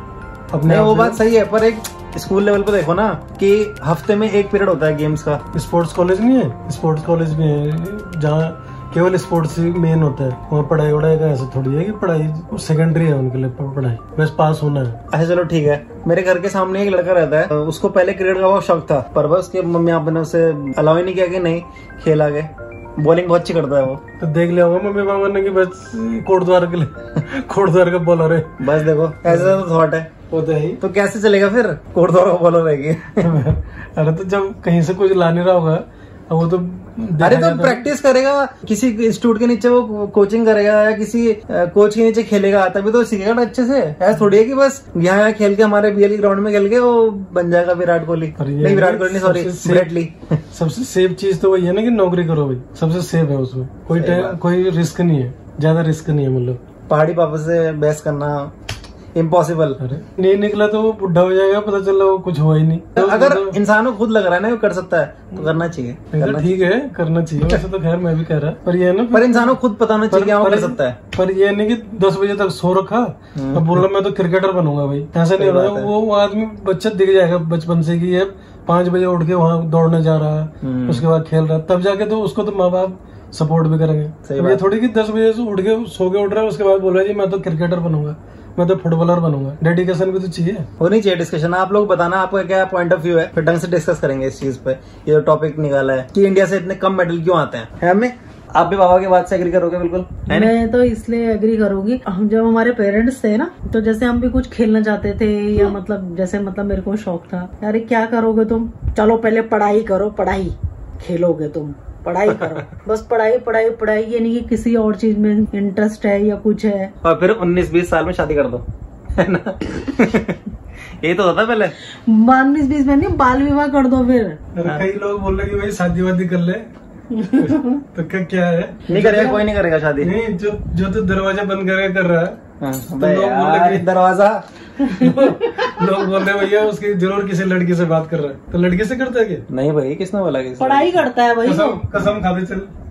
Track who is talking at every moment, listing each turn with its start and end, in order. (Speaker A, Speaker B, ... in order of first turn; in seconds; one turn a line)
Speaker A: 0.5-1.2
Speaker B: 0.6-5.4
Speaker A: 5.5-15.0
Speaker B: 15.1-24.0
Speaker A: 24.2-28.6
Speaker B: 28.6-30.1
Speaker A: 29.3-29.6
Speaker A: 30.3-30.8
Speaker B: 30.8-33.3
Speaker A: 33.2-37.9
Speaker B: 37.2-50.4
Speaker A: 48.4-49.9
Speaker A: 50.5-56.6
Speaker B: 53.9-54.4
Speaker B: 56.9-58.5
Speaker B: 59.1-59.8
Speaker A: 59.8-63.6
Speaker B: 63.0-66.6
Speaker A: 66.1-69.6
Speaker B: 69.1-71.0
Speaker A: 70.1-90.7
Speaker B: 73.3-73.8
Speaker B: 75.4-75.9
Speaker B: 80.6-81.0
Speaker B: 84.2-84.6
Speaker B: 90.8-100.5
Speaker C: 100.3-116.9
Speaker B: 117.0-118.6
Speaker B: 119.2-120.4
Speaker B: 121.0-121.7
Speaker C: 122.0-124.4
Speaker A: 124.5-126.7
Speaker C: 127.1-127.8
Speaker A: 127.3-129.4
Speaker B: 128.9-130.1
Speaker A: 130.0-132.4
Speaker B: 132.6-134.4
Speaker A: 133.0-133.9
Speaker C: 134.8-135.7
Speaker A: 134.9-139.4
Speaker B: 139.5-141.0
Speaker C: 140.6-141.8
Speaker A: 141.4-142.7